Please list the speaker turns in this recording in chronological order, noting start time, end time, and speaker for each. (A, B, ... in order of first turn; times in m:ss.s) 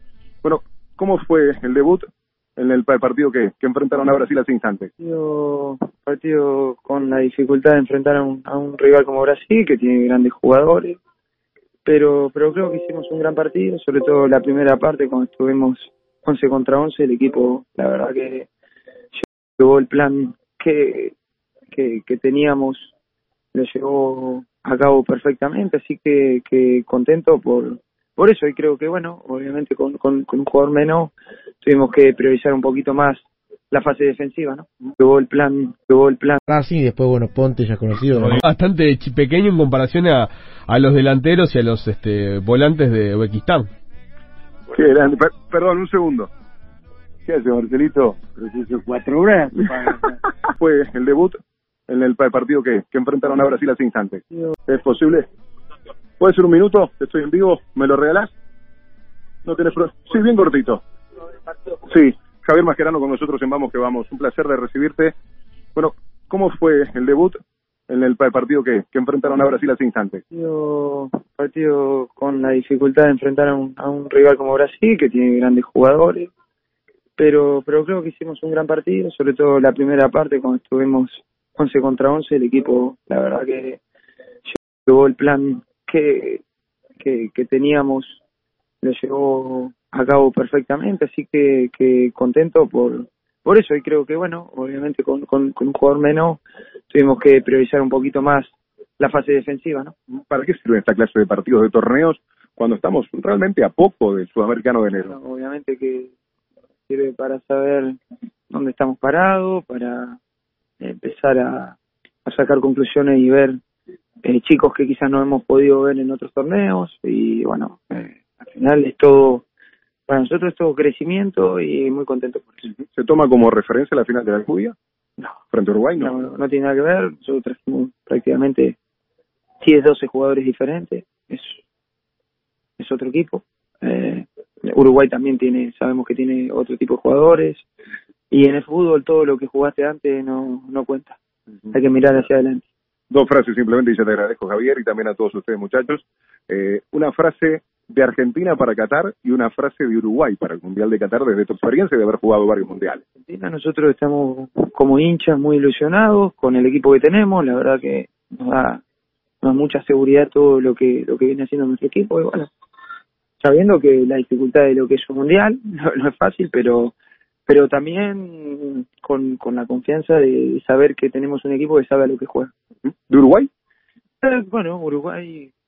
0:00.4-0:04.9 A
0:05.0-0:11.0 B
0:11.8-0:18.5 B
0:19.1-0:21.1 B
0:21.7-0:22.9 B
0:23.5-0:36.4 B
0:36.5-0:38.4 C
0:38.2-0:43.6 D
0:44.7-0:46.3 A
0:47.2-0:50.1 E
0:50.5-0:55.2 A
0:56.2-0:58.3 A
0:59.4-1:00.8 A
1:01.9-1:05.1 A
1:05.7-1:10.2 A
1:10.3-1:16.3 B
1:17.2-1:23.8 B
1:24.5-1:26.4 B
1:27.0-1:28.2 B
1:28.8-1:39.9 B
1:40.3-1:45.2 A
1:45.0-1:46.1 B
1:46.9-1:48.0 B
1:48.5-1:50.2 B
1:50.8-1:53.6 B
1:54.2-1:59.4 B
2:00.1-2:02.7 B
2:02.7-2:04.7 A
2:05.5-2:06.2 A
2:06.0-2:08.8 B
2:09.6-2:11.6 B
2:12.8-2:17.6 B
2:18.3-2:21.2 B
2:21.7-2:22.6 B
2:23.1-2:33.0 A
2:33.2-2:38.8 B
2:39.4-2:42.5 B
2:43.4-2:46.9 B
2:47.4-2:52.5 B
2:53.1-2:53.5 A
2:54.2-2:55.5 B